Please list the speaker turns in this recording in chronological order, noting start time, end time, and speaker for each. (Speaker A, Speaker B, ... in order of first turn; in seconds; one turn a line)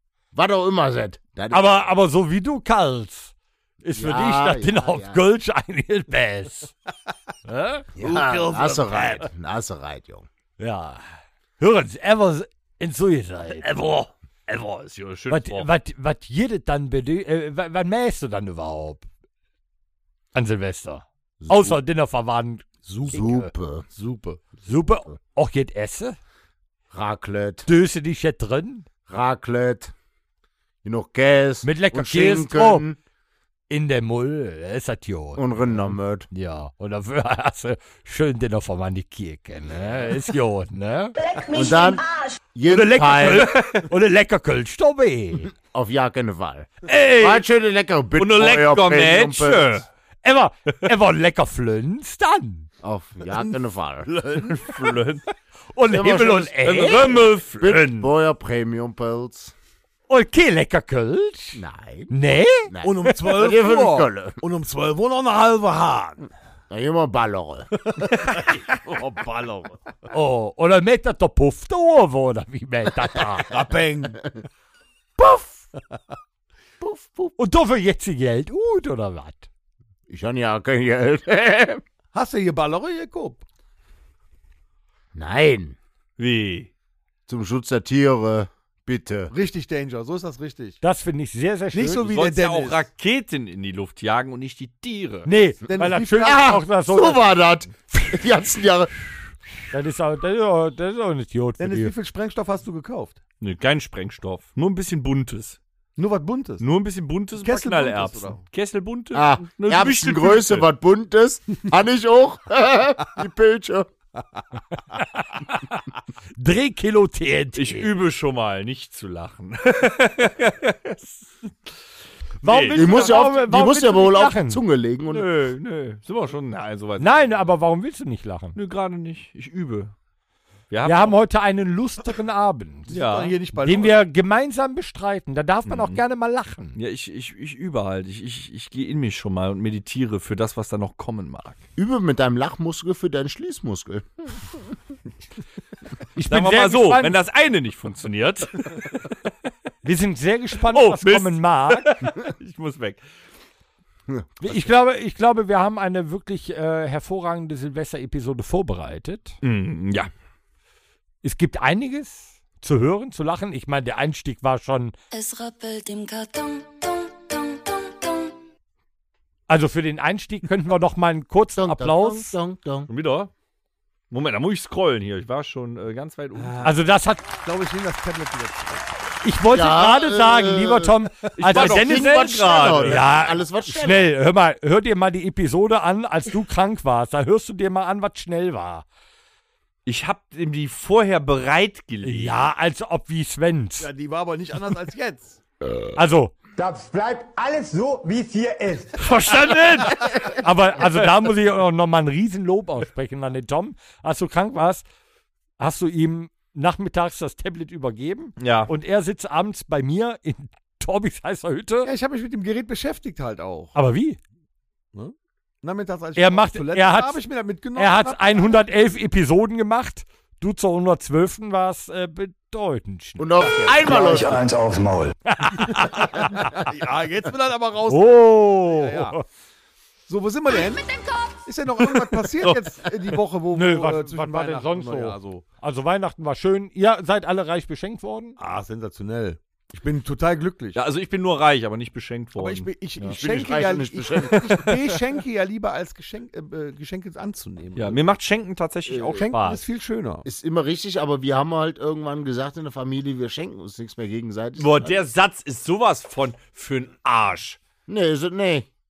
Speaker A: 0.3-1.9
Speaker B: 1.5-6.7
Speaker A: 4.0-5.2
Speaker B: 7.5-7.9
Speaker A: 8.0-10.3
Speaker C: 8.0-9.3
Speaker B: 10.6-11.0
Speaker B: 11.6-13.7
Speaker C: 13.6-15.7
Speaker B: 15.3-19.1
Speaker B: 20.4-23.5
Speaker A: 21.4-21.8
Speaker A: 23.1-23.9
Speaker D: 23.9-24.4
Speaker B: 24.6-26.2
Speaker A: 26.9-27.7
Speaker B: 27.7-28.9
Speaker A: 29.1-29.9
Speaker A: 30.8-33.0
Speaker B: 31.6-32.9
Speaker B: 33.7-41.1
Speaker A: 35.4-36.3
Speaker E: 41.2-42.3
Speaker A: 41.5-43.6
Speaker B: 42.7-45.5
Speaker A: 45.4-49.8
Speaker C: 48.2-49.9
Speaker B: 50.2-52.7
Speaker A: 52.8-54.5
Speaker C: 54.1-55.2
Speaker B: 55.8-57.1
Speaker A: 55.9-59.5
Speaker C: 56.6-58.0
Speaker B: 60.1-63.1
Speaker A: 61.5-62.1
Speaker A: 62.6-64.4
Speaker D: 62.8-66.3
Speaker A: 66.7-67.7
Speaker B: 70.1-73.5
Speaker D: 73.5-74.2
Speaker A: 75.2-75.6
Speaker A: 76.8-77.4
Speaker B: 77.4-79.5
Speaker A: 80.1-81.8
Speaker D: 82.1-83.4
Speaker A: 85.1-85.8
Speaker C: 86.2-86.7
Speaker A: 87.3-89.3
Speaker D: 89.3-90.8
Speaker B: 90.8-92.1
Speaker D: 91.7-92.8
Speaker C: 92.1-95.3
Speaker B: 95.3-97.3
Speaker D: 95.7-96.4
Speaker A: 96.1-98.9
Speaker B: 99.7-101.9
Speaker D: 101.6-103.2
Speaker C: 103.4-105.6
Speaker D: 106.0-106.7
Speaker C: 106.6-110.7
Speaker D: 107.4-108.4
Speaker A: 109.1-113.9
Speaker B: 115.0-115.7
Speaker B: 116.4-117.9
Speaker C: 117.6-121.5
Speaker C: 122.4-123.2
Speaker B: 122.4-124.6
Speaker A: 122.7-125.3
Speaker C: 125.1-127.3
Speaker B: 127.0-128.6
Speaker C: 128.6-129.9
Speaker C: 130.7-131.2
Speaker B: 130.8-132.9
Speaker D: 132.9-134.0
Speaker C: 132.9-133.4
Speaker B: 133.6-136.8
Speaker C: 135.7-136.0
Speaker C: 136.8-141.6
Speaker A: 141.8-144.6
Speaker B: 146.2-147.2
Speaker C: 146.3-149.3
Speaker B: 149.8-151.9
Speaker C: 150.7-153.0
Speaker A: 154.1-154.7
Speaker B: 154.4-159.4
Speaker C: 159.4-160.1
Speaker B: 161.2-165.0
Speaker F: 165.1-168.3
Speaker B: 169.5-172.3
Speaker A: 171.6-172.9
Speaker C: 172.9-173.3
Speaker C: 174.1-176.7
Speaker D: 176.4-176.8
Speaker B: 176.6-177.3
Speaker D: 177.4-178.9
Speaker B: 179.2-182.2
Speaker A: 179.5-181.0
Speaker C: 181.4-183.1
Speaker A: 181.5-184.1
Speaker B: 182.8-188.8
Speaker C: 189.9-192.4
Speaker B: 192.0-193.9
Speaker D: 193.8-195.4
Speaker B: 195.9-196.3
Speaker E: 196.6-199.2
Speaker C: 199.0-200.1
Speaker B: 199.7-204.8
Speaker B: 205.6-211.9
Speaker C: 208.4-208.7
Speaker D: 211.8-213.8
Speaker B: 213.8-214.2
Speaker D: 214.9-218.6
Speaker B: 216.2-217.2
Speaker B: 217.8-223.3
Speaker A: 223.2-224.5
Speaker D: 223.5-224.1
Speaker E: 223.8-225.1
Speaker B: 225.3-226.6
Speaker D: 226.1-229.2
Speaker B: 227.9-229.2
Speaker D: 230.1-230.9
Speaker D: 231.4-235.4
Speaker C: 232.4-232.8
Speaker B: 233.5-238.4
Speaker D: 238.4-240.8
Speaker C: 240.8-242.7
Speaker D: 242.4-248.0
Speaker A: 243.0-244.6
Speaker C: 244.3-245.0
Speaker C: 247.8-249.4
Speaker A: 248.9-249.2
Speaker D: 249.2-250.3
Speaker B: 249.3-249.6
Speaker A: 250.2-255.0
Speaker C: 254.6-257.6
Speaker A: 257.9-258.7